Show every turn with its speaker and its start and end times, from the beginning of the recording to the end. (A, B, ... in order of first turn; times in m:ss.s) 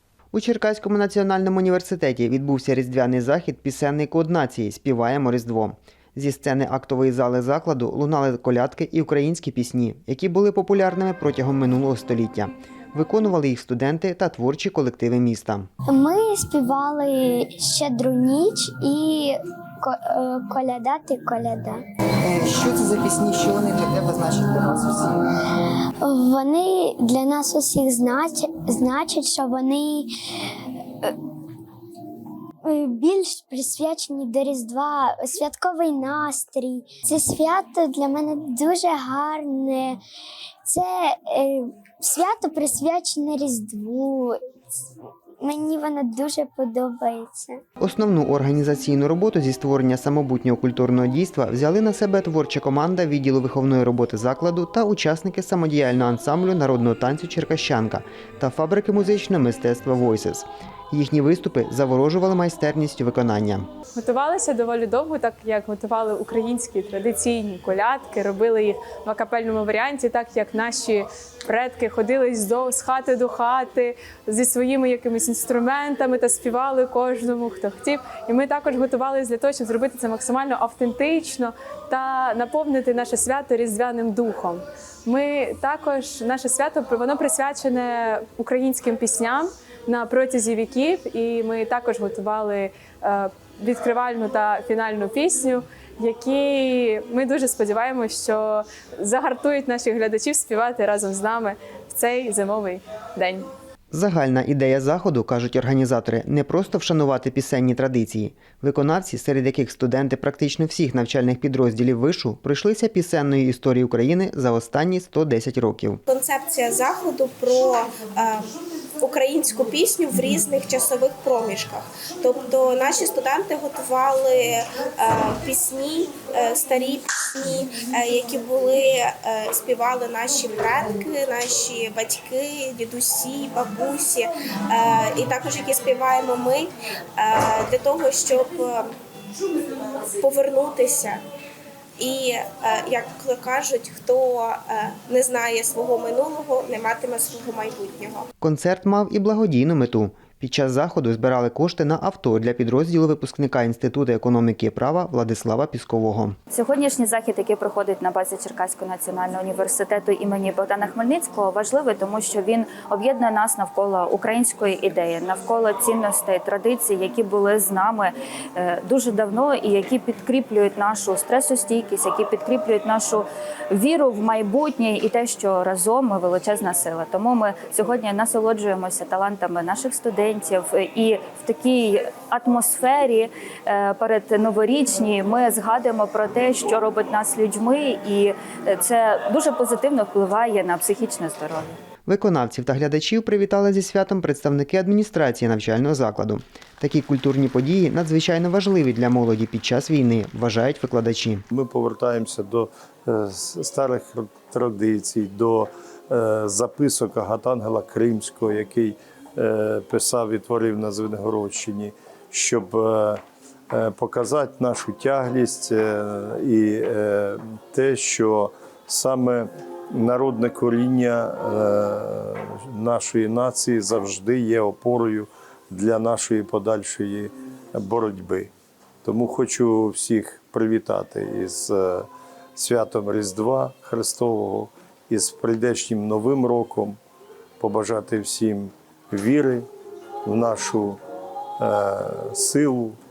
0:00.3-0:15.7 A
0:15.8-0:21.8 B
0:22.2-0:25.2 A
0:26.0-0:30.1 B
0:32.6-0:40.0 B
0:40.7-0:44.4 B
0:45.4-0:47.6 B
0:47.8-1:03.7 A
1:04.0-1:43.4 C
1:43.9-1:56.0 A
1:56.1-2:18.9 D
2:19.8-2:21.2 D
2:22.0-2:28.3 D
2:28.4-2:36.4 A
2:36.5-3:11.8 E
3:12.0-3:21.4 A
3:21.5-3:48.5 F
3:49.0-3:57.0 F
3:57.6-3:59.7 F
4:00.2-4:01.0 F
4:01.6-4:03.0 F